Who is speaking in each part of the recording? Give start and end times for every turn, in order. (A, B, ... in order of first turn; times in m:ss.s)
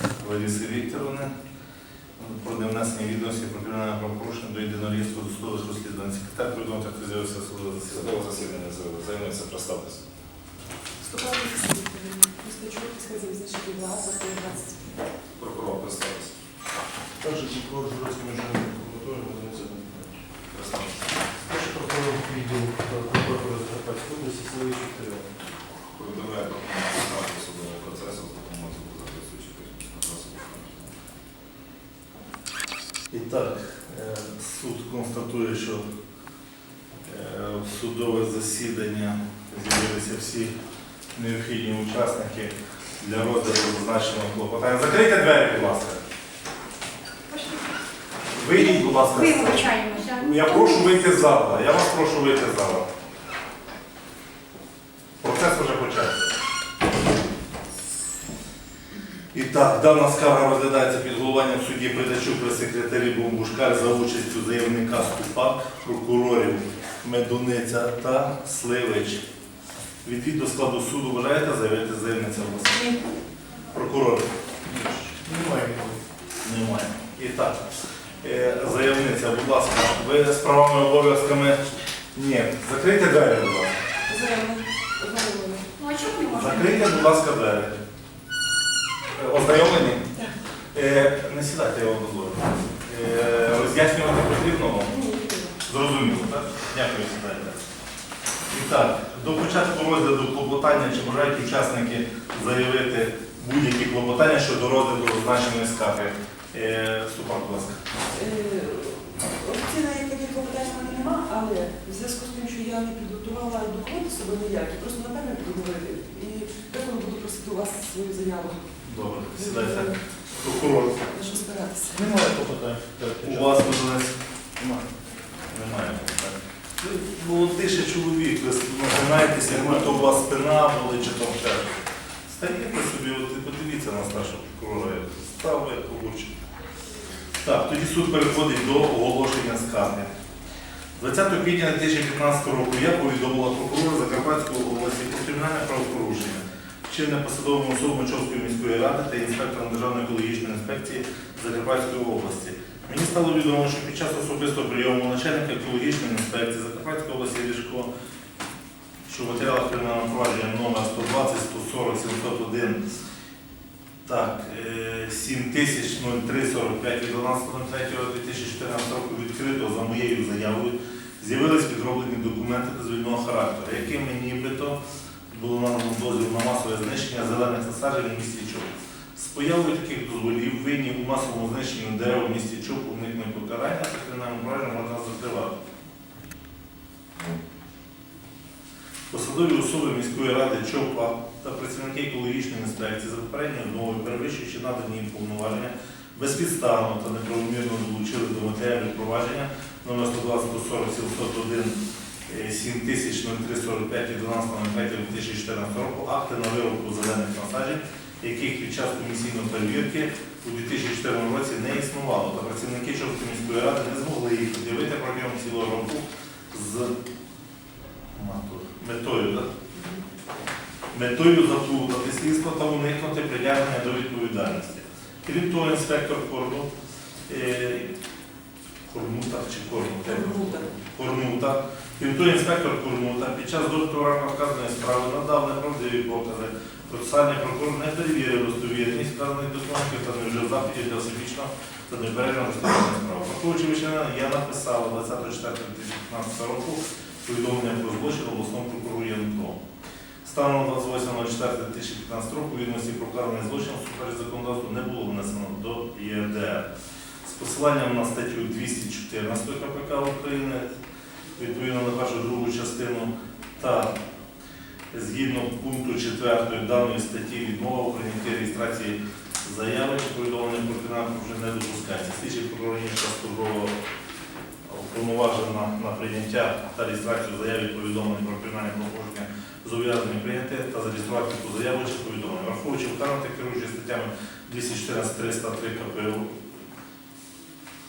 0:00.2-0:01.3 A
0:02.2-0:08.1 A
0:07.9-0:10.0 B
0:11.0-0:14.9 C
0:15.4-0:16.3 B
0:17.2-0:20.1 D
0:20.5-0:21.3 B
0:21.6-0:25.3 D
0:25.9-0:30.9 B
0:33.1-0:35.8 A
0:37.0-0:40.5 A
0:41.2-0:46.0 A
0:47.3-0:47.6 E
0:48.4-0:52.9 A
0:48.6-0:50.9 E
0:55.2-0:56.3 A
0:59.3-1:09.2 A
1:10.0-1:12.9 A
1:13.7-1:14.3 A
1:14.8-1:16.0 D
1:16.4-1:17.6 A
1:18.2-1:21.6 A
1:22.2-1:23.8 A
1:24.1-1:25.7 C
1:25.8-1:26.8 E
1:26.2-1:27.8 A
1:29.2-1:30.1 A
1:30.7-1:35.0 A
1:35.1-1:35.4 C
1:35.6-1:37.6 A
1:38.5-1:47.8 A
1:48.2-1:58.6 C
1:58.8-2:01.1 A
1:59.6-1:59.9 C
2:01.1-2:02.0 C
2:02.0-2:03.3 D
2:03.2-2:04.2 A
2:05.5-2:11.7 A
2:12.3-2:16.3 A
2:17.4-2:20.1 A
2:21.0-2:37.9 A
2:39.1-2:42.8 A
2:44.0-2:54.8 A
2:55.3-3:05.6 A
3:09.1-3:36.9 A
3:38.1-3:39.5 A
3:40.9-3:46.7 A
3:47.3-3:47.9 A
3:48.9-4:09.6 A
4:10.2-4:16.7 A
4:17.2-4:20.7 A
4:21.4-4:24.0 A
4:24.9-4:33.7 A
4:34.7-4:46.4 A